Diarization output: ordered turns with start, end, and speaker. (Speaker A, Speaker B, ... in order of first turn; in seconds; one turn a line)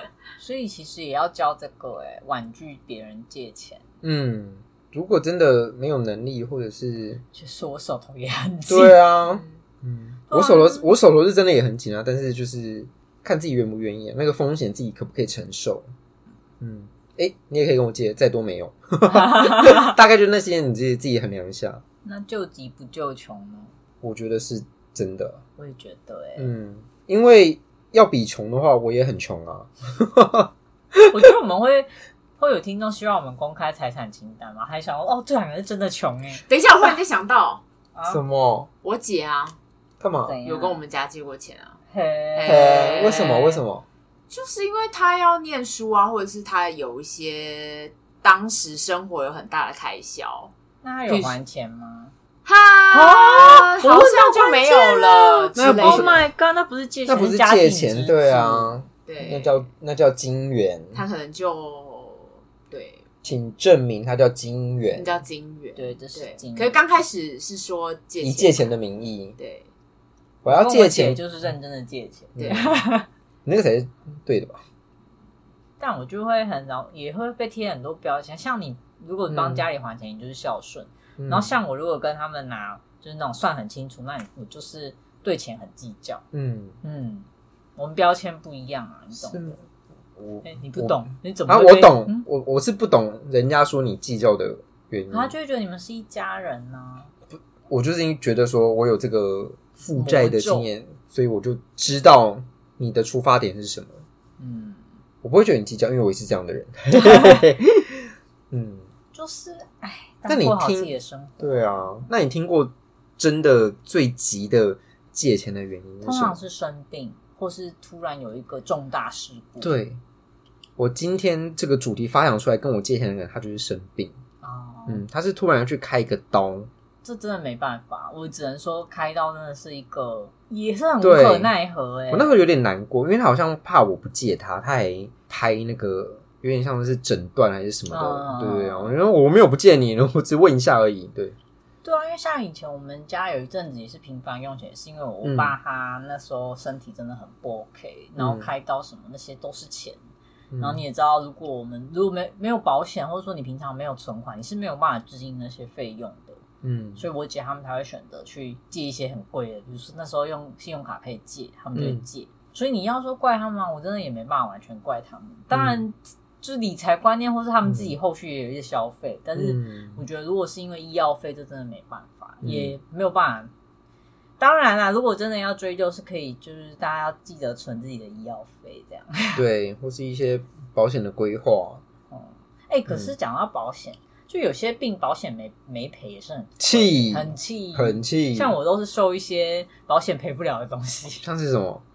Speaker A: 0.4-3.8
Speaker B: 4.0-7.2
Speaker A: 7.3-9.0
Speaker B: 8.7-15.9
Speaker A: 10.3-10.9
Speaker B: 16.6-21.8
Speaker A: 19.1-19.9
Speaker A: 22.0-23.7
Speaker B: 24.0-25.4
Speaker A: 25.6-26.5
Speaker B: 26.4-30.5
Speaker A: 31.1-36.4
Speaker C: 36.5-37.6
Speaker A: 38.0-38.2
Speaker B: 38.1-38.7
Speaker C: 38.8-39.6
Speaker B: 40.0-40.4
Speaker A: 40.3-40.8
Speaker C: 40.4-41.8
Speaker A: 41.9-43.4
Speaker C: 42.4-43.6
Speaker B: 42.4-43.9
Speaker C: 44.3-50.5
Speaker A: 50.8-52.1
Speaker C: 51.1-51.4
Speaker C: 52.5-56.3
Speaker B: 52.9-53.7
Speaker A: 53.0-58.7
Speaker B: 55.5-56.2
Speaker B: 57.1-61.0
Speaker C: 59.0-59.6
Speaker C: 61.0-63.0
Speaker B: 63.2-65.2
Speaker C: 64.9-68.7
Speaker A: 65.8-66.8
Speaker B: 68.2-69.4
Speaker C: 69.4-69.7
Speaker B: 70.4-71.2
Speaker A: 70.5-73.1
Speaker B: 72.4-72.8
Speaker C: 72.4-72.7
Speaker B: 73.5-74.6
Speaker A: 75.8-86.2
Speaker B: 79.3-79.7
Speaker B: 81.2-81.5
Speaker B: 86.3-86.8
Speaker A: 86.8-89.6
Speaker B: 89.2-89.6
Speaker B: 90.2-95.3
Speaker A: 90.4-92.2
Speaker A: 95.1-97.1
Speaker B: 97.7-104.0
Speaker A: 100.0-100.7
Speaker A: 104.4-104.8
Speaker B: 105.2-108.9
Speaker A: 107.0-107.4
Speaker A: 109.1-112.0
Speaker B: 110.3-116.4
Speaker A: 116.0-119.8
Speaker B: 119.6-120.0
Speaker B: 120.8-124.1
Speaker A: 124.4-125.0
Speaker B: 124.9-126.7
Speaker A: 127.0-132.4
Speaker B: 131.0-131.5
Speaker B: 132.1-141.4
Speaker A: 137.9-138.9
Speaker A: 141.8-150.0
Speaker B: 145.2-145.6
Speaker B: 148.2-148.5
Speaker B: 150.5-150.8
Speaker A: 150.6-156.4
Speaker B: 156.6-157.0
Speaker A: 157.0-173.5
Speaker B: 161.8-162.0
Speaker B: 165.5-165.8
Speaker B: 167.7-168.0
Speaker B: 169.4-170.0
Speaker B: 172.4-172.8
Speaker A: 174.4-179.4
Speaker B: 179.4-181.8
Speaker A: 182.1-191.3
Speaker B: 186.6-188.5
Speaker B: 191.2-191.8